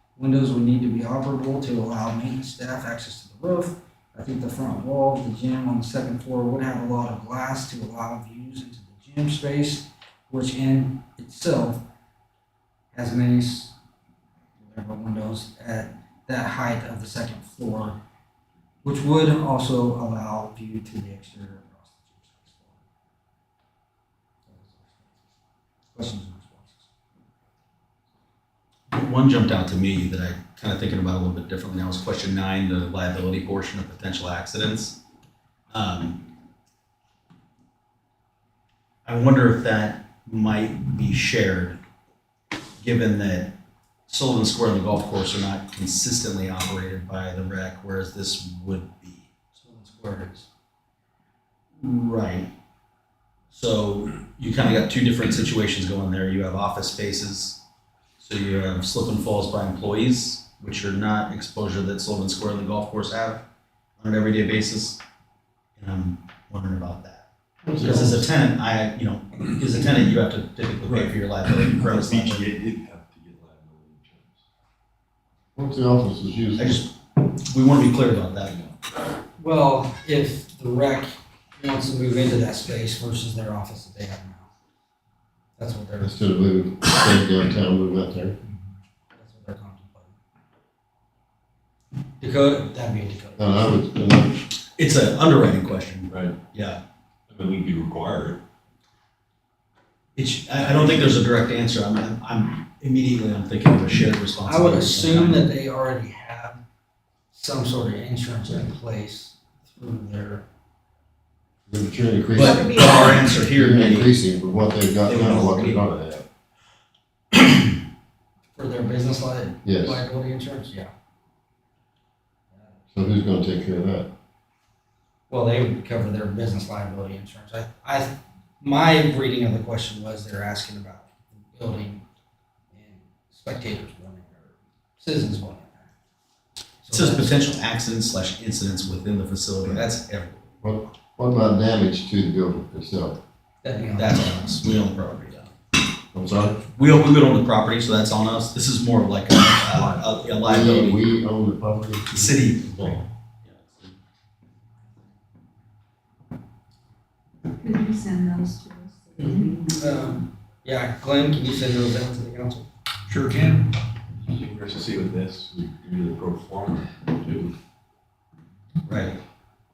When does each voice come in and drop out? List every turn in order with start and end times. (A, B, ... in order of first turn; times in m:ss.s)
0:00.2-0:11.8 A
0:12.9-0:13.7 A
0:14.6-0:18.0 A
0:18.8-0:22.8 A
0:24.5-0:25.2 A
0:25.9-0:26.9 A
0:28.9-0:35.0 B
0:35.7-0:36.3 B
0:39.0-0:41.8 B
0:42.8-0:43.5 B
0:44.1-0:49.3 B
0:49.6-0:50.5 A
0:51.8-0:52.5 B
0:53.5-0:57.6 B
0:58.2-1:03.4 B
1:04.0-1:05.0 B
1:05.8-1:07.2 B
1:07.6-1:08.3 C
1:07.8-1:12.4 B
1:10.8-1:14.4 D
1:15.5-1:16.8 C
1:16.6-1:18.5 B
1:18.4-1:18.7 D
1:19.4-1:24.5 A
1:25.6-1:26.1 A
1:26.0-1:28.4 C
1:29.1-1:30.2 A
1:32.2-1:33.5 A
1:33.4-1:34.4 C
1:34.8-1:36.8 B
1:36.1-1:36.4 D
1:37.3-1:38.4 D
1:40.2-1:45.5 B
1:44.4-1:46.6 A
1:47.3-1:50.4 A
1:51.7-1:56.2 C
1:52.3-1:54.1 B
1:52.4-1:53.3 E
1:55.0-1:55.8 B
1:58.5-2:00.9 A
1:59.6-2:00.0 C
2:02.9-2:04.1 C
2:05.3-2:12.0 A
2:12.7-2:15.9 A
2:16.8-2:17.5 A
2:16.9-2:20.4 B
2:20.6-2:23.2 C
2:23.6-2:24.4 A
2:24.0-2:25.5 B
2:26.1-2:26.6 C
2:26.6-2:31.1 B
2:29.7-2:30.4 D
2:30.4-2:33.0 C
2:32.1-2:33.9 B
2:37.5-2:40.2 E
2:39.2-2:42.7 A
2:43.1-2:47.5 D
2:48.8-2:49.2 B